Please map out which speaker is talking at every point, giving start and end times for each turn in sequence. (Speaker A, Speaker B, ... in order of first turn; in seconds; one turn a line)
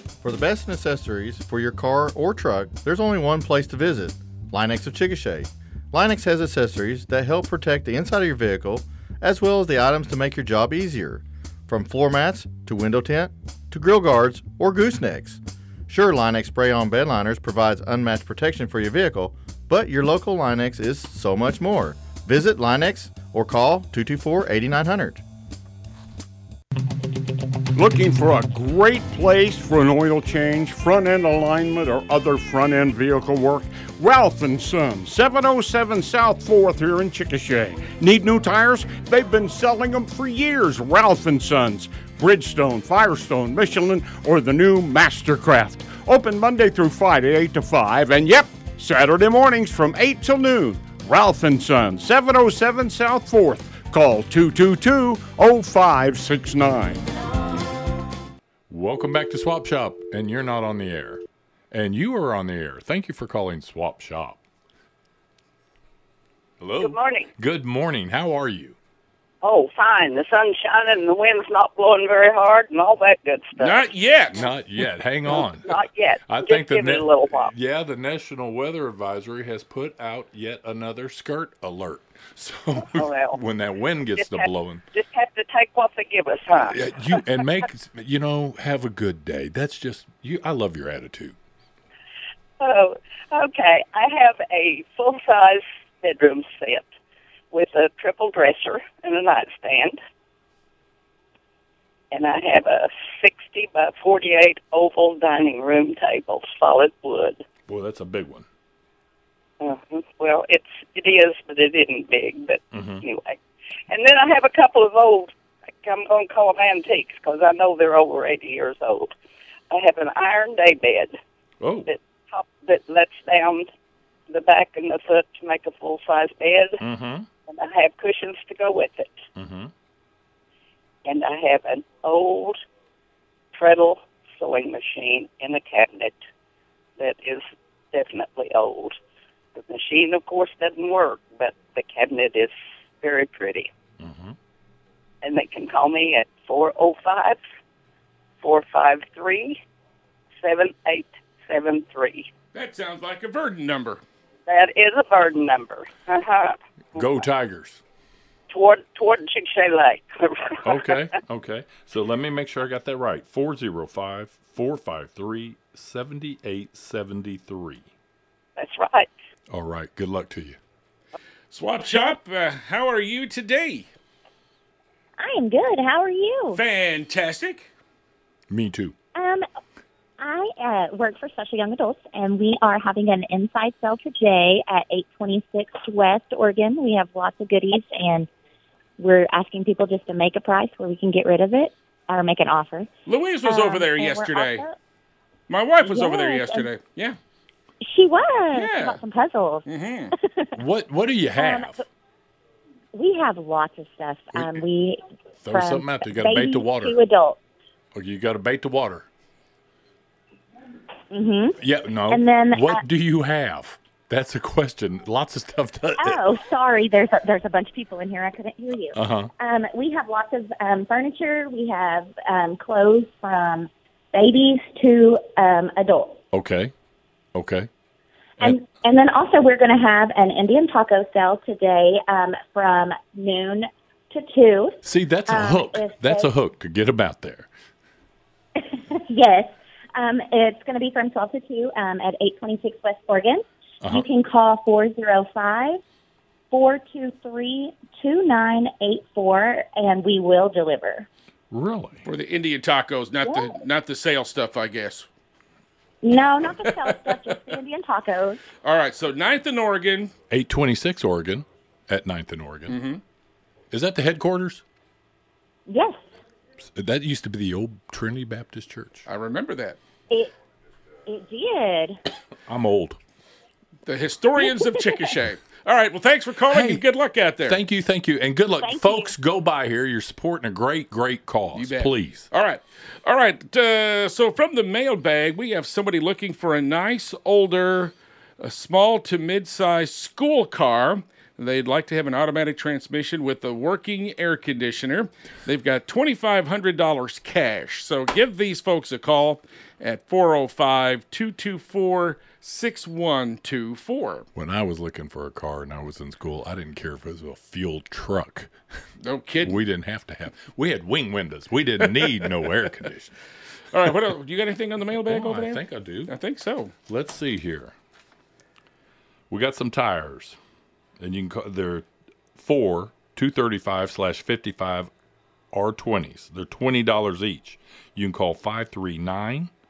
Speaker A: 0.2-25.2
Speaker B: 27.8-57.1
Speaker C: 58.7-64.4
Speaker C: 66.6-68.8
Speaker D: 66.8-67.3
Speaker D: 69.4-73.8
Speaker E: 73.6-74.5
Speaker C: 74.3-84.8
Speaker D: 75.3-77.5
Speaker D: 82.8-83.4
Speaker D: 84.2-86.8
Speaker C: 86.6-91.3
Speaker D: 92.6-96.9
Speaker D: 97.5-100.0
Speaker D: 102.1-107.4
Speaker C: 107.7-108.5
Speaker D: 109.6-113.4
Speaker C: 112.7-113.0
Speaker D: 113.9-119.1
Speaker D: 119.7-121.2
Speaker C: 121.6-121.9
Speaker D: 121.9-123.7
Speaker D: 124.3-126.8
Speaker C: 126.8-127.3
Speaker D: 127.5-129.2
Speaker C: 129.4-129.7
Speaker D: 131.1-132.6
Speaker D: 133.5-136.2
Speaker D: 137.0-138.9
Speaker D: 139.6-143.7
Speaker C: 144.0-144.4
Speaker D: 145.2-147.4
Speaker D: 148.4-149.6
Speaker D: 150.4-152.3
Speaker E: 152.5-154.0
Speaker D: 154.5-157.0
Speaker C: 156.9-157.8
Speaker D: 158.5-161.0
Speaker C: 160.6-167.9
Speaker D: 168.6-169.1
Speaker C: 169.5-170.6
Speaker E: 171.5-173.9
Speaker F: 175.2-176.6
Speaker E: 176.5-177.7
Speaker C: 178.5-178.9
Speaker F: 179.2-179.5
Speaker F: 180.2-188.3
Speaker F: 189.0-192.9
Speaker E: 193.1-194.7
Speaker F: 193.4-194.8
Speaker E: 195.5-197.2
Speaker F: 195.8-196.7
Speaker F: 197.8-199.7
Speaker E: 198.5-199.0
Speaker E: 199.7-200.1
Speaker F: 200.2-200.5
Speaker C: 200.6-201.8
Speaker F: 201.4-201.8
Speaker F: 202.9-207.4
Speaker C: 204.3-204.6
Speaker C: 205.4-207.0
Speaker C: 207.9-209.1
Speaker F: 211.1-212.8
Speaker C: 211.6-216.2
Speaker F: 216.0-226.2
Speaker C: 218.9-219.3
Speaker C: 226.3-226.7
Speaker C: 227.3-227.7
Speaker F: 228.4-236.3
Speaker C: 234.8-237.5
Speaker F: 238.6-245.8
Speaker F: 246.5-251.1
Speaker C: 251.5-252.1
Speaker E: 252.1-255.1
Speaker F: 256.0-258.4
Speaker E: 258.6-260.1
Speaker C: 260.3-262.8
Speaker E: 262.7-263.0
Speaker C: 263.7-264.6
Speaker F: 265.7-266.0
Speaker C: 266.7-269.1
Speaker E: 269.1-269.8
Speaker F: 271.1-272.0
Speaker C: 272.5-273.0
Speaker E: 273.9-277.6
Speaker C: 276.5-276.8
Speaker C: 277.5-282.3
Speaker F: 278.6-279.1
Speaker E: 281.5-304.3
Speaker C: 304.4-308.5
Speaker E: 309.0-309.6
Speaker C: 309.4-313.1
Speaker E: 313.7-316.7
Speaker C: 315.1-316.1
Speaker C: 316.9-317.7
Speaker C: 319.3-320.4
Speaker C: 321.0-324.9
Speaker C: 325.5-329.5